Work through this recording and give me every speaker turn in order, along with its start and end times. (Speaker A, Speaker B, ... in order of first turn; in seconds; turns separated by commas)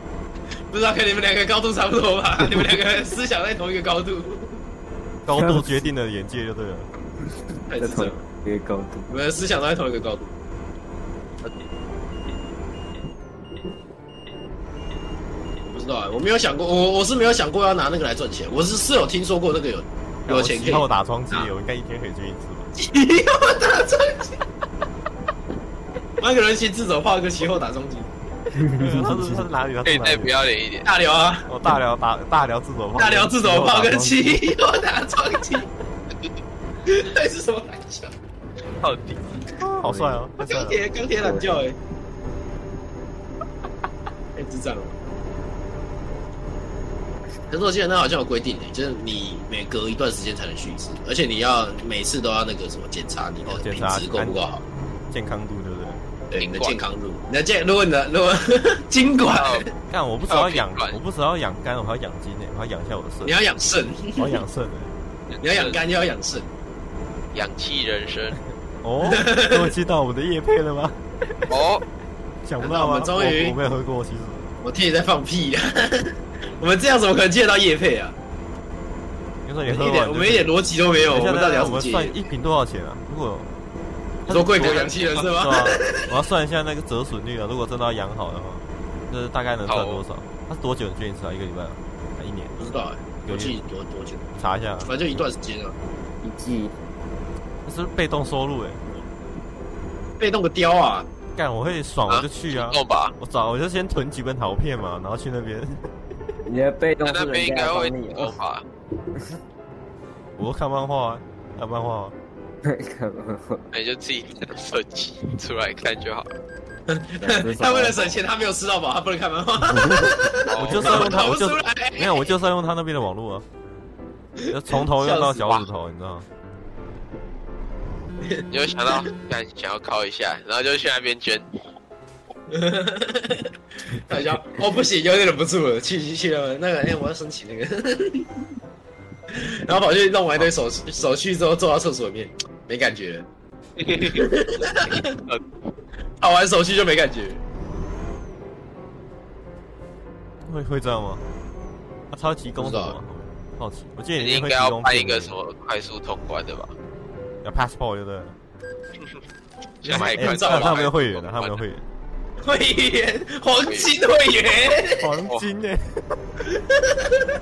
Speaker A: 0.7-4.6, Speaker B: 5.2-6.9, Speaker C: 5.3-5.7, Speaker A: 7.7-8.2, Speaker C: 7.8-9.1, Speaker A: 9.1-10.3, Speaker A: 15.7-21.5, Speaker B: 20.3-22.7, Speaker A: 22.8-24.4, Speaker A: 26.2-28.1, Speaker C: 28.6-29.4, Speaker B: 28.7-30.4, Speaker D: 29.9-30.9, Speaker A: 30.9-31.5, Speaker B: 31.5-34.5, Speaker A: 33.0-35.7, Speaker A: 36.9-38.1, Speaker D: 38.8-39.4, Speaker B: 39.6-40.8, Speaker C: 39.8-40.2, Speaker A: 40.4-41.8, Speaker C: 41.2-41.6, Speaker A: 44.4-44.9, Speaker A: 47.5-54.6, Speaker B: 53.5-54.4, Speaker B: 55.1-56.0, Speaker A: 56.3-59.7, Speaker D: 56.4-56.8, Speaker D: 59.3-59.7, Speaker B: 59.9-63.4, Speaker D: 60.3-61.0, Speaker A: 63.2-64.4, Speaker B: 64.2-64.9, Speaker D: 65.4-65.8, Speaker A: 65.4-66.5, Speaker D: 67.3-68.4, Speaker B: 68.8-71.0, Speaker A: 69.1-69.7, Speaker D: 71.5-71.8, Speaker B: 72.4-74.5, Speaker A: 72.6-73.6, Speaker A: 74.6-78.2, Speaker B: 79.5-83.5, Speaker A: 79.6-82.2, Speaker B: 84.3-92.6, Speaker A: 84.3-86.1, Speaker D: 84.5-85.1, Speaker D: 89.7-90.0, Speaker A: 92.6-94.3, Speaker B: 93.2-93.6, Speaker B: 94.4-94.9, Speaker A: 94.8-95.8, Speaker C: 96.2-96.7, Speaker B: 97.7-98.8, Speaker A: 100.2-101.1, Speaker B: 101.3-105.9, Speaker D: 102.1-103.2, Speaker C: 106.5-108.4, Speaker D: 107.0-108.7, Speaker B: 110.4-112.2, Speaker C: 112.6-113.7, Speaker D: 113.7-116.4, Speaker A: 116.9-122.3, Speaker C: 117.2-118.0, Speaker D: 120.5-121.1, Speaker B: 120.6-123.5, Speaker B: 124.5-126.3, Speaker A: 124.8-125.6, Speaker A: 128.3-129.1, Speaker D: 128.5-131.5, Speaker A: 132.5-138.3, Speaker A: 139.3-143.3, Speaker D: 143.8-145.4, Speaker A: 144.0-145.2, Speaker A: 146.2-147.4, Speaker B: 150.4-151.2, Speaker B: 152.1-155.3, Speaker A: 152.6-153.0, Speaker D: 154.2-156.7, Speaker B: 157.4-158.4, Speaker A: 159.8-160.8, Speaker D: 159.8-161.6, Speaker B: 159.9-161.8, Speaker A: 162.4-165.1, Speaker D: 163.6-163.9, Speaker B: 165.0-166.2, Speaker A: 166.6-167.3